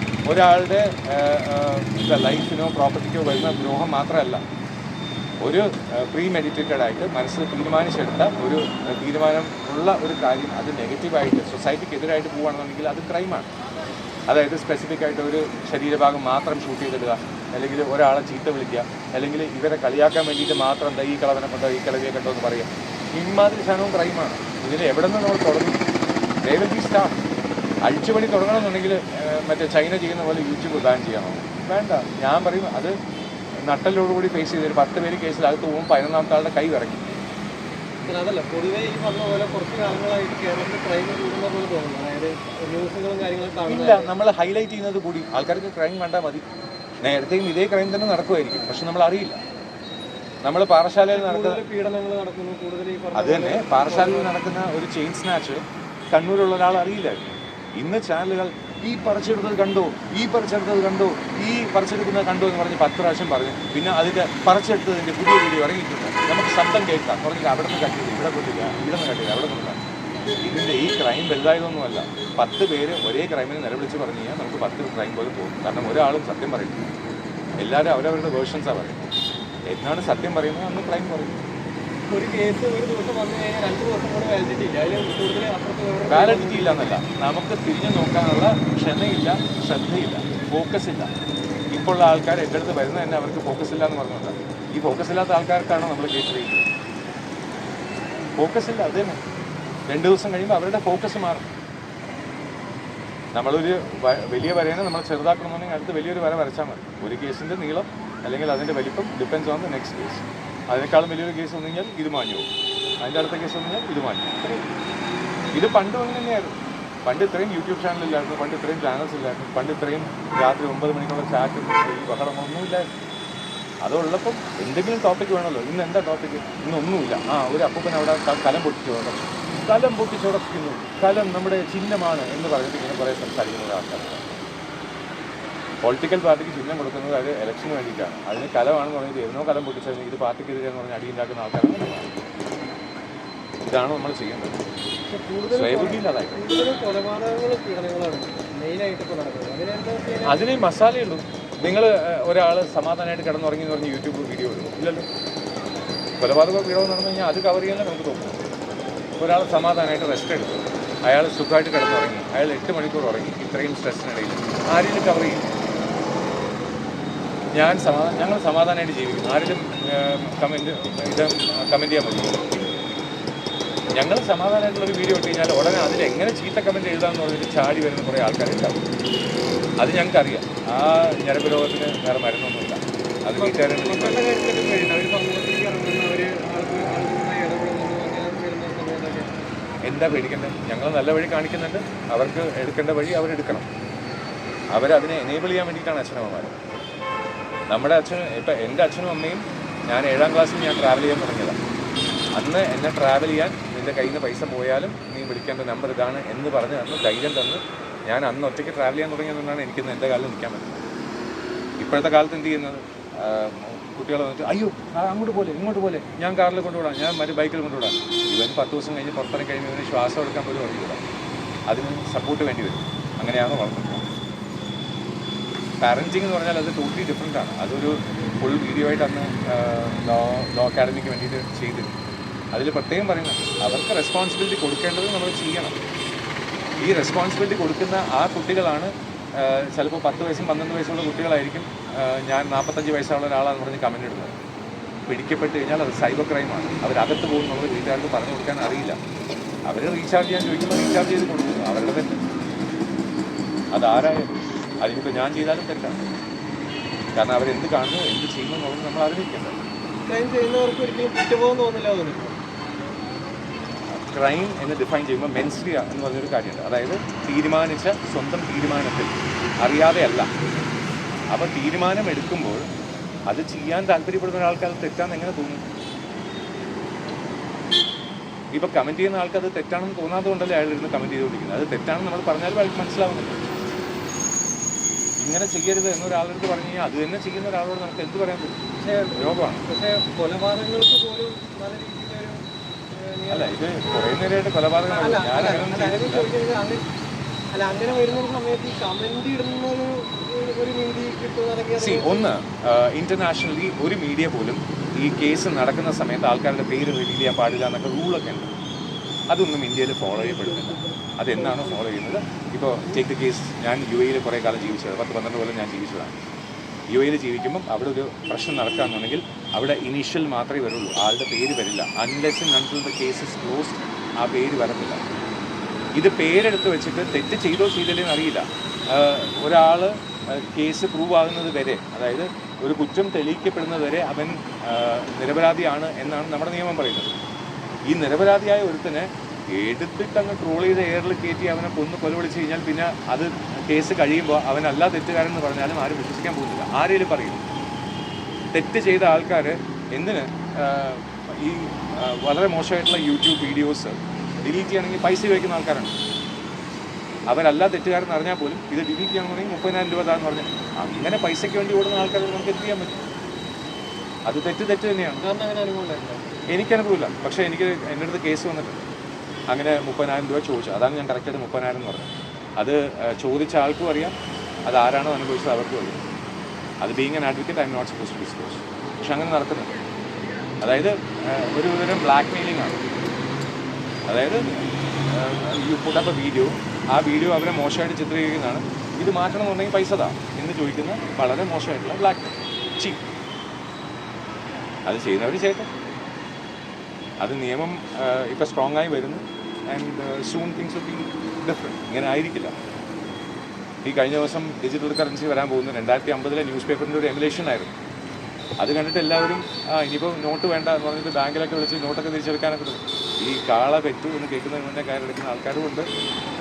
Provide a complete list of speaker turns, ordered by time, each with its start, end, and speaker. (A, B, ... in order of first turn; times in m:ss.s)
0:00.3-0:04.4 A
0:05.4-0:13.5 A
0:14.3-0:25.8 A
0:26.4-0:27.2 A
0:27.8-0:32.9 A
0:33.7-0:37.1 A
0:38.1-0:44.1 B
0:43.7-0:46.4 A
0:47.0-0:49.4 A
0:50.4-0:51.6 A
0:51.1-0:54.3 B
0:53.2-1:09.8 A
1:10.4-1:16.9 A
1:17.6-1:19.1 A
1:19.7-1:21.4 A
1:22.1-1:27.0 B
1:26.1-1:31.1 A
1:31.7-1:36.7 A
1:38.4-1:39.2 A
1:39.9-1:41.5 A
1:43.3-1:52.5 A
1:53.0-1:54.7 A
1:55.5-1:56.5 A
1:57.0-2:02.8 A
2:03.8-2:14.2 A
2:15.8-2:22.1 A
2:23.7-2:24.6 A
2:25.1-2:30.5 B
2:25.5-2:26.4 A
2:30.3-2:35.1 A
2:36.2-2:38.4 A
2:39.2-2:45.5 A
2:47.6-2:52.8 A
2:53.9-2:58.8 A
2:59.8-3:04.2 A
3:03.4-3:09.3 B
3:09.9-3:13.7 A
3:14.7-3:16.6 A
3:17.7-3:21.6 A
3:22.4-3:30.8 A
3:31.8-3:41.0 A
3:41.7-3:44.0 A
3:45.8-3:51.9 A
3:52.5-3:55.8 A
3:56.8-4:04.3 A
4:05.1-4:09.0 A
4:09.7-4:12.2 A
4:13.7-4:16.0 A
4:17.2-4:19.6 A
4:20.1-4:22.4 B
4:23.9-4:30.3 A
4:31.3-4:32.6 A
4:33.3-4:35.6 A
4:38.5-4:43.4 A
4:45.2-4:48.5 A
4:48.8-4:52.4 B
4:49.2-4:49.6 A
4:52.9-4:53.6 B
4:53.3-4:56.3 A
4:54.9-4:56.8 B
4:57.5-5:02.3 B
5:01.8-5:08.5 A
5:09.3-5:16.2 A
5:10.2-5:11.8 B
5:16.9-5:25.0 A
5:26.0-5:37.1 A
5:37.9-5:47.4 A
5:48.5-5:55.9 A
5:57.3-6:02.9 A
6:04.3-6:05.2 A
6:05.2-6:06.4 B
6:06.5-6:08.8 A
6:09.5-6:14.2 A
6:14.7-6:16.0 A
6:16.8-6:19.7 A
6:20.6-6:22.8 A
6:24.1-6:24.5 A
6:25.1-6:33.0 A
6:34.9-6:35.7 A
6:37.2-6:42.5 A
6:43.8-6:47.7 A
6:48.6-6:55.9 A